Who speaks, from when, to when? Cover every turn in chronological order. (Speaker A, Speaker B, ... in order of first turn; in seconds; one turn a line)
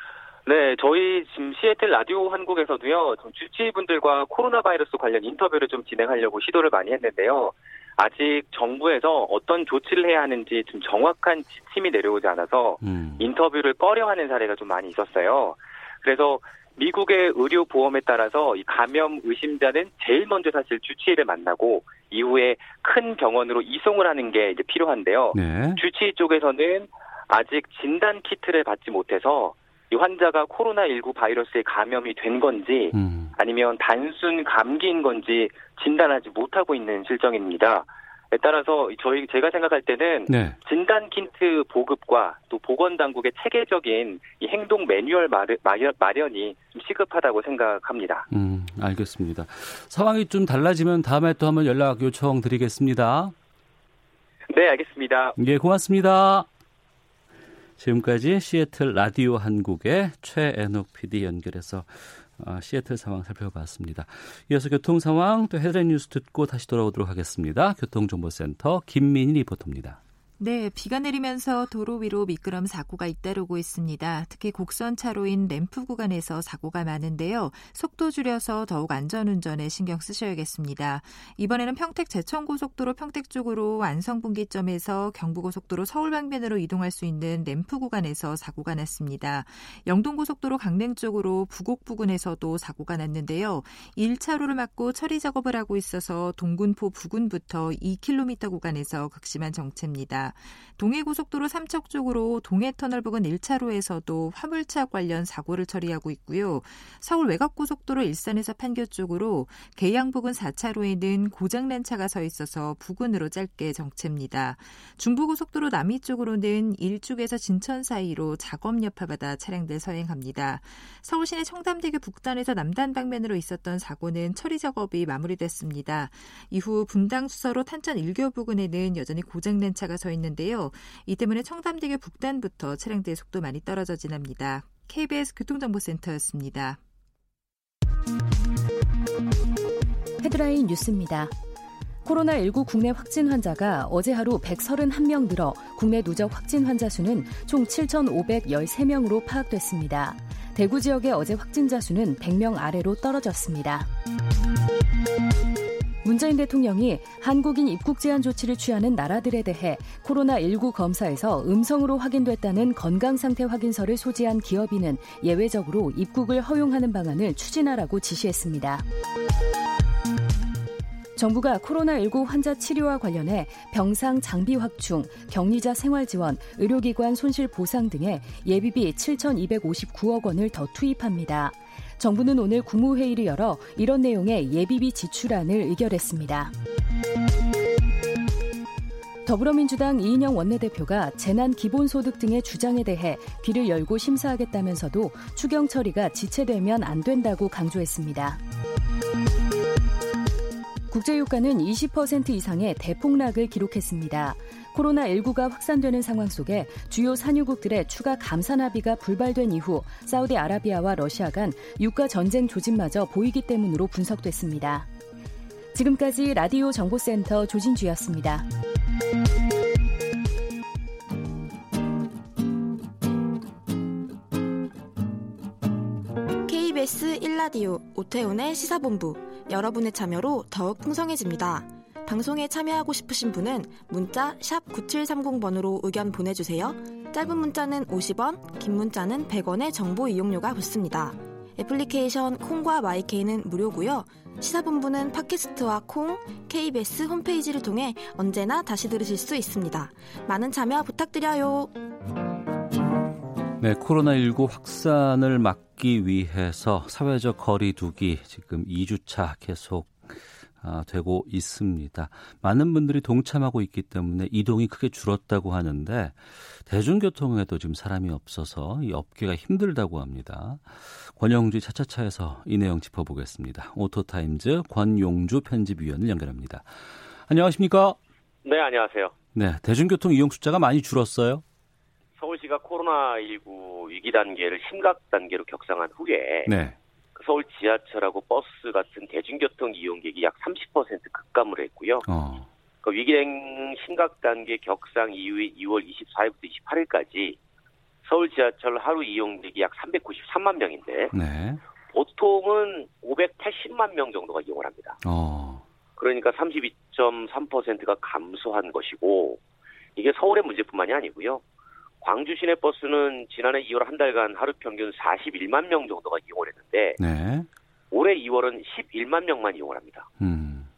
Speaker A: 0.5-48.3
Speaker B: 12.8-13.3
Speaker B: 25.3-25.8
Speaker B: 32.9-33.4
Speaker B: 40.3-40.6
Speaker B: 48.3-53.4
Speaker A: 54.5-55.4
Speaker B: 55.4-56.5
Speaker B: 57.8-70.0
Speaker C: 70.4-136.8
Speaker D: 140.2-141.3
Speaker D: 142.1-153.9
Speaker D: 156.0-168.8
Speaker D: 171.2-186.5
Speaker D: 189.2-198.4
Speaker D: 200.9-214.9
Speaker D: 215.7-218.5
Speaker E: 226.5-251.8
Speaker B: 253.6-278.0
Speaker F: 278.4-279.1
Speaker B: 279.3-281.4
Speaker F: 282.2-286.5
Speaker B: 286.5-286.8
Speaker F: 287.1-292.1
Speaker B: 292.1-292.5
Speaker F: 292.8-297.4
Speaker F: 298.1-301.1
Speaker B: 301.1-301.6
Speaker F: 301.9-305.0
Speaker B: 305.0-305.6
Speaker F: 306.0-309.4
Speaker F: 310.0-311.4
Speaker F: 312.0-317.0
Speaker B: 317.0-317.5
Speaker F: 317.9-320.1
Speaker B: 320.2-320.7